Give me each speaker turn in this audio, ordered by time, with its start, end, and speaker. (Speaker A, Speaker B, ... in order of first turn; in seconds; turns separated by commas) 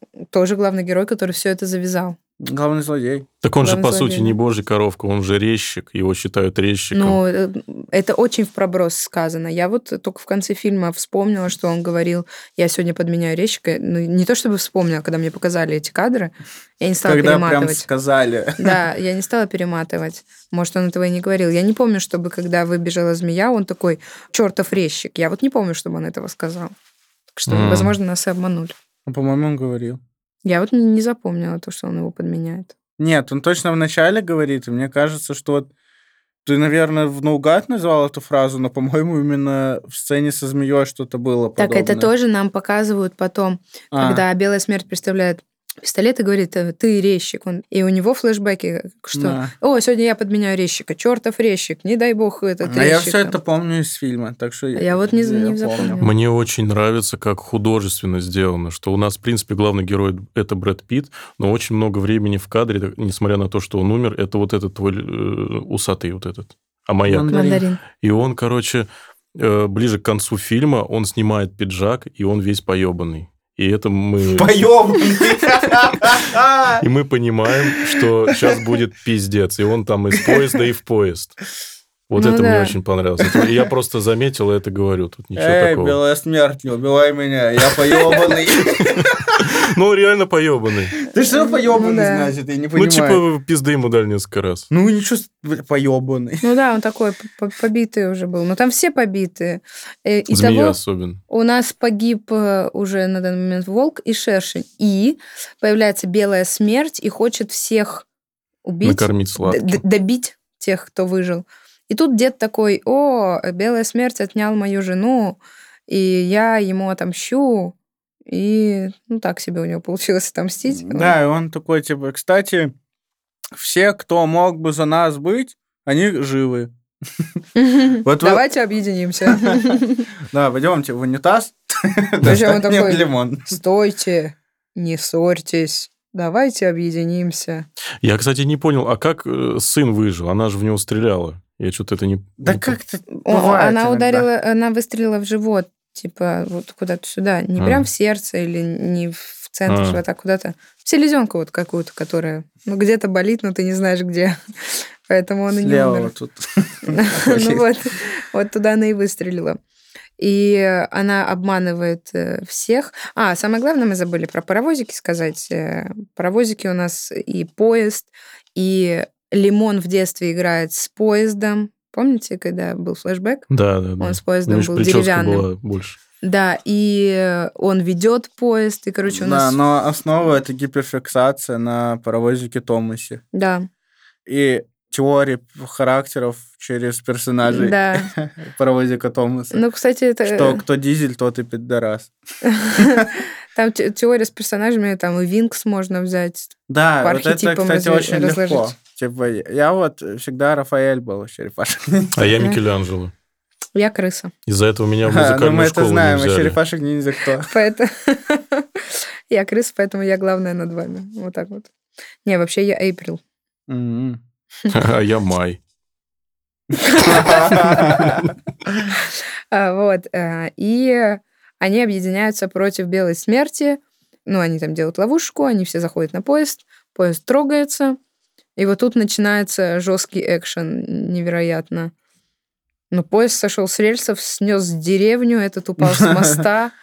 Speaker A: 0.3-2.2, Speaker B: 2.4-3.3, Speaker C: 3.4-7.2, Speaker A: 3.6-4.3, Speaker A: 6.9-17.9, Speaker B: 17.0-18.8, Speaker A: 18.6-26.7, Speaker A: 27.4-28.7, Speaker C: 27.5-27.9, Speaker B: 29.1-30.0, Speaker A: 30.4-32.7, Speaker B: 33.0-35.7, Speaker B: 36.4-42.1, Speaker A: 41.6-53.4, Speaker B: 43.9-44.2, Speaker B: 49.1-49.5, Speaker B: 52.6-56.1, Speaker A: 54.8-56.1, Speaker C: 56.0-67.3, Speaker B: 67.0-67.6, Speaker A: 67.3-67.8, Speaker C: 68.0-74.5, Speaker B: 74.3-76.8, Speaker C: 76.8-81.4, Speaker C: 82.1-86.0, Speaker A: 82.2-82.8, Speaker B: 85.3-89.0, Speaker C: 88.8-91.0, Speaker B: 91.0-93.2, Speaker A: 91.3-92.3, Speaker C: 92.7-94.7, Speaker B: 94.7-96.4, Speaker A: 96.4-100.8, Speaker C: 100.3-101.2, Speaker A: 101.3-108.1, Speaker A: 108.6-117.7, Speaker C: 108.8-109.8, Speaker A: 118.3-121.1, Speaker B: 120.7-122.7, Speaker B: 123.5-127.3, Speaker A: 127.5-130.1, Speaker B: 128.0-128.4, Speaker B: 129.2-129.8, Speaker B: 130.3-133.6, Speaker A: 132.2-137.6, Speaker C: 138.0-142.8, Speaker B: 142.4-144.3, Speaker A: 143.1-156.1, Speaker C: 147.6-147.8, Speaker C: 149.7-150.0, Speaker B: 155.6-157.6, Speaker A: 156.9-159.6, Speaker A: 160.2-175.5, Speaker C: 173.5-176.0, Speaker A: 176.2-179.6, Speaker B: 179.1-183.2, Speaker A: 183.3-183.7, Speaker B: 184.2-189.6, Speaker A: 187.4-188.1, Speaker A: 189.5-190.6, Speaker B: 190.2-192.1, Speaker A: 192.5-198.7, Speaker B: 192.8-193.1, Speaker B: 196.7-202.1, Speaker C: 202.1-203.1, Speaker A: 203.7-204.3, Speaker C: 204.5-206.6, Speaker B: 205.0-207.5, Speaker A: 207.5-211.7, Speaker A: 212.2-213.2, Speaker B: 213.7-214.2, Speaker C: 214.7-215.6, Speaker A: 216.8-218.0, Speaker B: 217.0-218.8, Speaker A: 219.5-228.0, Speaker A: 228.6-231.9, Speaker A: 232.9-236.7, Speaker B: 235.8-236.4